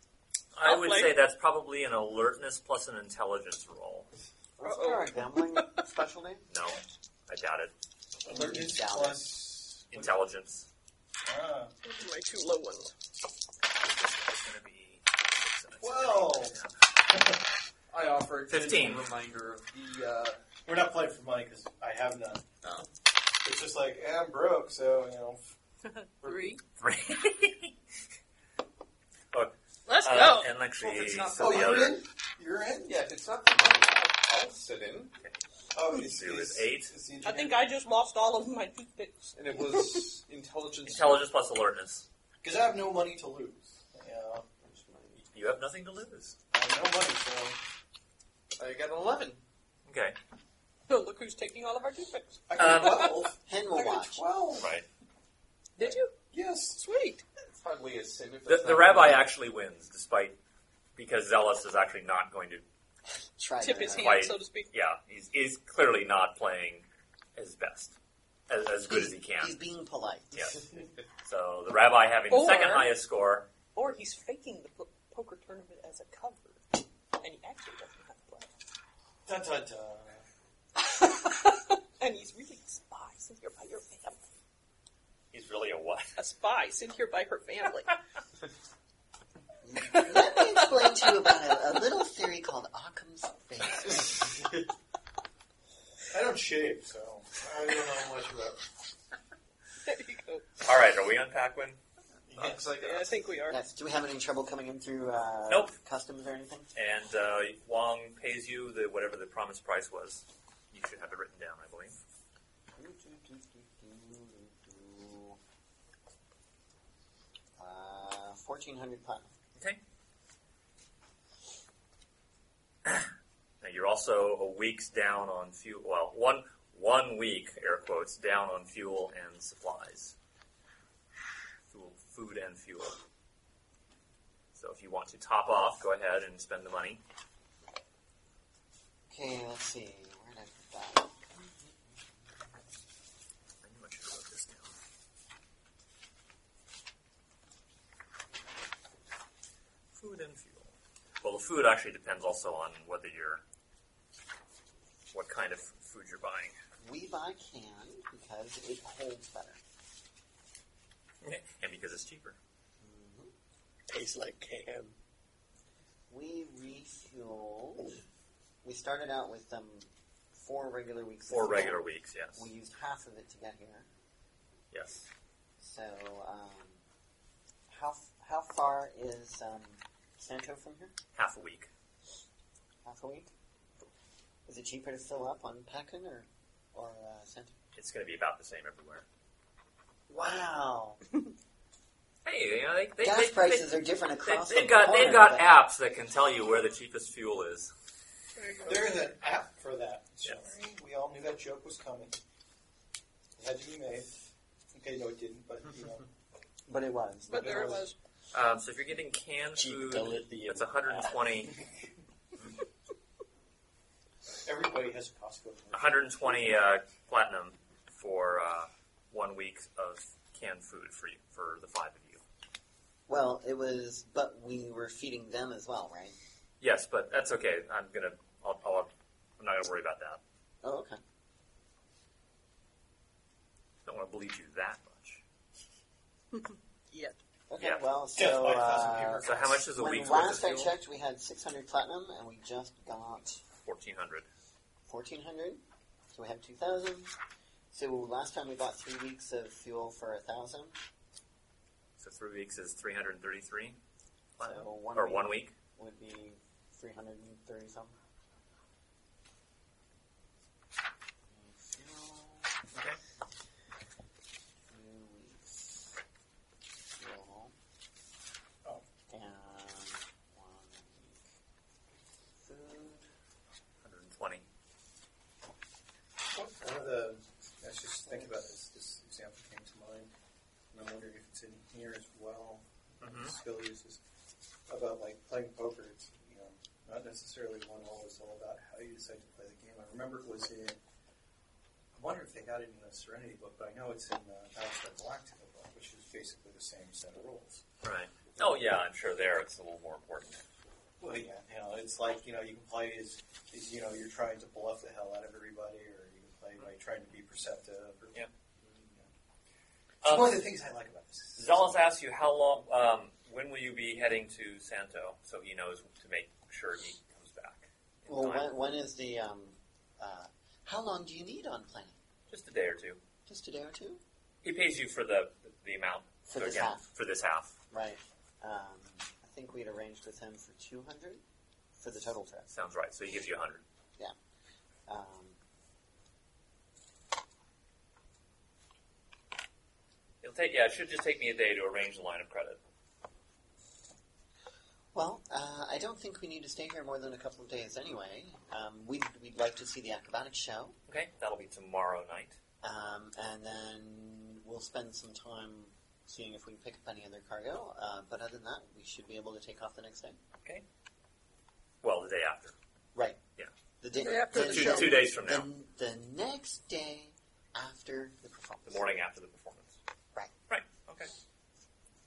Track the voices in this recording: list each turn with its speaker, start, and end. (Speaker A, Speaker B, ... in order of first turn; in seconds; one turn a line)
Speaker A: 0.5-4.1
Speaker B: 0.6-1.2
Speaker C: 4.6-6.5
Speaker B: 4.6-5.7
Speaker A: 6.5-7.7
Speaker D: 8.2-10.2
Speaker C: 8.2-9.2
Speaker A: 9.9-10.7
Speaker D: 11.3-11.7
Speaker B: 11.8-12.9
Speaker A: 13.7-16.7
Speaker D: 15.8-16.6
Speaker D: 17.1-17.4
Speaker E: 17.9-20.4
Speaker A: 18.5-19.1
Speaker D: 20.6-22.4
Speaker E: 22.6-22.9
Speaker D: 23.4-25.4
Speaker B: 25.9-26.6
Speaker A: 26.8-27.7
Speaker A: 29.3-32.0
Speaker B: 29.9-30.5
Speaker E: 30.8-32.0
Speaker D: 31.4-32.9
Speaker E: 32.8-35.1
Speaker D: 35.7-37.7
Speaker A: 35.9-36.9
Speaker B: 37.2-40.2
Speaker E: 39.3-41.2
Speaker A: 40.8-42.0
Speaker D: 42.4-44.5
Speaker E: 44.6-45.2
Speaker A: 45.3-46.4
Speaker D: 46.5-47.6
Speaker E: 48.5-49.4
Speaker A: 49.9-50.1
Speaker B: 50.9-53.2
Speaker D: 52.5-54.7
Speaker A: 52.6-53.1
Speaker C: 53.5-54.2
Speaker A: 54.6-54.9
Speaker B: 55.8-56.2
Speaker D: 55.8-56.8
Speaker B: 56.7-57.2
Speaker E: 57.5-59.3
Speaker A: 58.5-60.4
Speaker A: 61.0-62.6
Speaker C: 63.4-64.3
Speaker B: 63.6-64.7
Speaker A: 63.9-68.0
Speaker A: 68.5-69.5
Speaker C: 68.9-70.3
Speaker A: 70.3-70.6
Speaker A: 71.2-73.5
Speaker B: 72.3-73.0
Speaker B: 73.7-78.5
Speaker D: 79.2-80.2
Speaker B: 80.8-84.2
Speaker A: 85.3-86.1
Speaker B: 86.2-88.0
Speaker C: 89.6-94.2
Speaker B: 89.9-91.4
Speaker D: 96.1-98.6
Speaker B: 99.8-100.5
Speaker A: 100.6-101.8
Speaker D: 102.3-102.7
Speaker E: 102.3-103.3
Speaker B: 102.7-103.6
Speaker C: 103.5-106.7
Speaker A: 105.5-105.7
Speaker A: 106.7-112.0
Speaker C: 112.8-115.4
Speaker C: 117.6-119.3
Speaker A: 123.6-130.1
Speaker A: 131.7-133.0
Speaker A: 134.5-137.0
Speaker C: 139.1-141.5
Speaker A: 143.6-144.7
Speaker A: 149.9-150.7
Speaker A: 151.2-153.4
Speaker A: 155.1-156.6
Speaker C: 156.8-159.6
Speaker A: 161.2-162.4
Speaker C: 162.8-163.3
Speaker F: 163.9-164.9
Speaker C: 166.1-168.0
Speaker C: 168.6-171.8
Speaker A: 171.3-172.4
Speaker C: 172.3-173.9
Speaker A: 174.7-175.1
Speaker C: 175.6-176.8
Speaker C: 177.7-180.9
Speaker A: 181.1-181.7
Speaker C: 182.8-183.3
Speaker C: 184.4-187.5
Speaker A: 187.8-189.0
Speaker C: 190.1-191.0
Speaker A: 192.2-197.7
Speaker C: 193.0-195.5
Speaker B: 198.3-199.1
Speaker D: 198.6-202.2
Speaker A: 200.2-200.5
Speaker D: 203.4-204.1
Speaker D: 204.7-206.1
Speaker C: 206.7-207.8
Speaker B: 207.3-207.9
Speaker D: 207.3-207.8
Speaker A: 208.3-211.6
Speaker F: 209.5-211.3
Speaker D: 214.4-216.5
Speaker A: 215.7-222.2
Speaker C: 223.1-226.2
Speaker A: 226.6-230.2
Speaker C: 230.6-231.0
Speaker A: 233.8-235.2
Speaker B: 236.3-237.2
Speaker C: 237.5-243.4
Speaker D: 238.1-239.6
Speaker A: 239.2-240.8
Speaker A: 243.6-244.3
Speaker C: 244.9-245.6
Speaker C: 246.1-247.1
Speaker C: 247.7-250.8
Speaker A: 252.0-253.8
Speaker A: 254.4-255.5
Speaker C: 254.4-257.9
Speaker C: 261.3-262.5
Speaker A: 262.7-263.0
Speaker C: 264.7-265.9
Speaker C: 267.0-267.5
Speaker C: 269.1-271.2
Speaker C: 272.4-273.1
Speaker A: 273.8-274.4
Speaker D: 276.3-280.1
Speaker D: 280.7-284.0
Speaker A: 283.0-283.3
Speaker D: 284.7-290.8
Speaker D: 291.9-297.6
Speaker A: 297.8-300.4
Speaker D: 301.0-308.2
Speaker D: 308.8-309.1
Speaker A: 310.0-310.4
Speaker D: 310.0-311.8
Speaker A: 311.4-318.5
Speaker C: 318.1-321.9
Speaker A: 322.3-323.0
Speaker C: 323.2-324.0
Speaker A: 324.4-327.5
Speaker C: 326.2-326.8
Speaker C: 327.7-331.2
Speaker C: 331.8-332.5
Speaker A: 332.5-333.6
Speaker C: 334.9-335.4
Speaker A: 340.2-342.6
Speaker C: 344.9-350.8
Speaker A: 350.9-352.4
Speaker C: 352.6-360.2
Speaker A: 361.8-362.5
Speaker C: 362.9-363.2
Speaker C: 363.8-368.9
Speaker B: 363.9-365.0
Speaker A: 364.2-365.5
Speaker A: 368.6-369.8
Speaker A: 370.5-371.1